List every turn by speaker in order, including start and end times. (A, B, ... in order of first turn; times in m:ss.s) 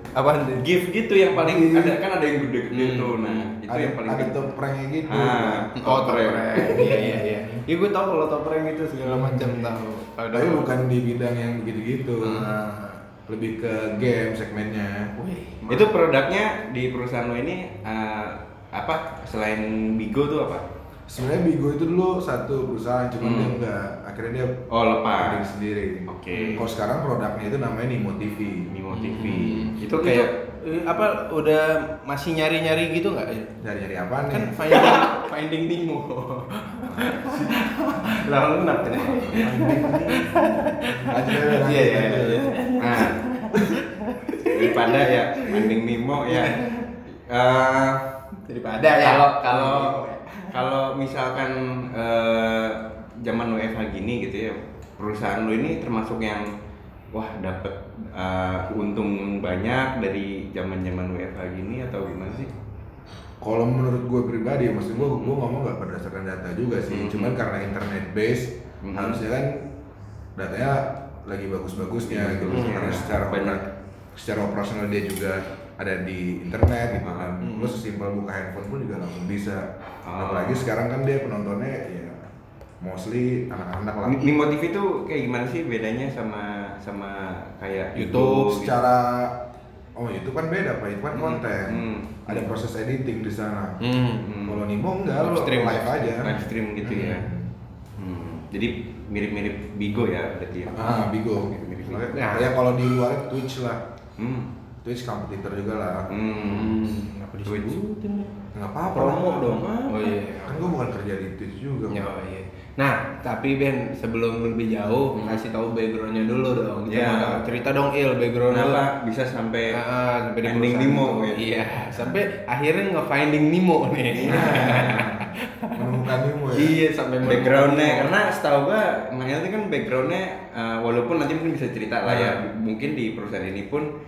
0:00.1-0:00.7 A
0:00.5-0:04.4 B
0:01.4-0:01.9 A
0:02.7-0:03.5 A
0:03.7-0:05.7 C
0:05.1-0:07.1 B
0:05.8-0:10.7 A
0:06.8-0:07.6 C
0:09.0-0:09.7 C
0:10.3-0:12.7 C
0:12.2-0:13.0 A
0:13.3-0:15.1 C
0:15.2-0:15.8 A
0:15.7-0:20.6 B
0:21.1-0:24.6 C
0:23.2-0:23.5 B
0:24.7-0:25.4 B
0:25.2-0:28.8 C
0:26.1-0:26.7 B
0:26.3-0:26.6 A
0:28.7-0:30.3 B
0:28.9-0:33.5 A
0:33.6-0:34.6 C
0:34.3-0:45.7 A
0:34.7-0:35.2 B
0:37.0-0:37.4 C
0:39.2-0:40.4 C
0:41.0-0:42.4 C
0:42.8-0:43.2 B
0:44.4-0:46.6 B
0:46.2-0:47.0 A
0:47.1-0:48.0 B
0:48.4-0:50.6 A
0:48.8-0:56.5 B
0:57.1-1:02.5 B
1:03.4-1:09.7 C
1:05.0-1:05.4 B
1:06.9-1:07.4 B
1:08.8-1:09.2 B
1:10.4-1:22.2 C
1:12.1-1:13.6 B
1:12.5-1:12.8 A
1:17.0-1:17.4 B
1:17.4-1:17.8 A
1:20.0-1:20.6 B
1:22.8-1:24.2 C
1:24.0-1:28.8 B
1:28.0-1:28.5 A
1:28.0-1:29.4 C
1:30.0-1:33.8 C
1:31.1-1:32.5 B
1:33.8-1:34.2 A
1:34.2-1:34.6 B
1:34.4-1:37.5 C
1:35.2-1:36.2 A
1:36.2-1:37.3 B
1:38.0-1:42.1 B
1:40.7-1:43.8 C
1:42.1-1:42.5 A
1:44.2-1:44.5 B
1:44.8-1:46.1 C
1:46.1-1:46.8 B
1:46.3-1:48.3 A
1:47.4-1:47.8 B
1:48.5-1:49.4 C
1:48.9-1:50.2 B
1:49.0-1:50.7 A
1:50.4-1:52.1 C
1:51.9-1:58.8 A
1:55.1-1:55.4 B
1:56.9-1:57.4 B
1:58.5-1:59.8 B
1:59.7-2:06.0 A
2:00.4-2:01.4 B
2:01.9-2:02.2 C
2:04.1-2:05.1 B
2:04.3-2:06.8 C
2:06.5-2:08.1 A
2:07.2-2:13.9 B
2:12.0-2:12.4 A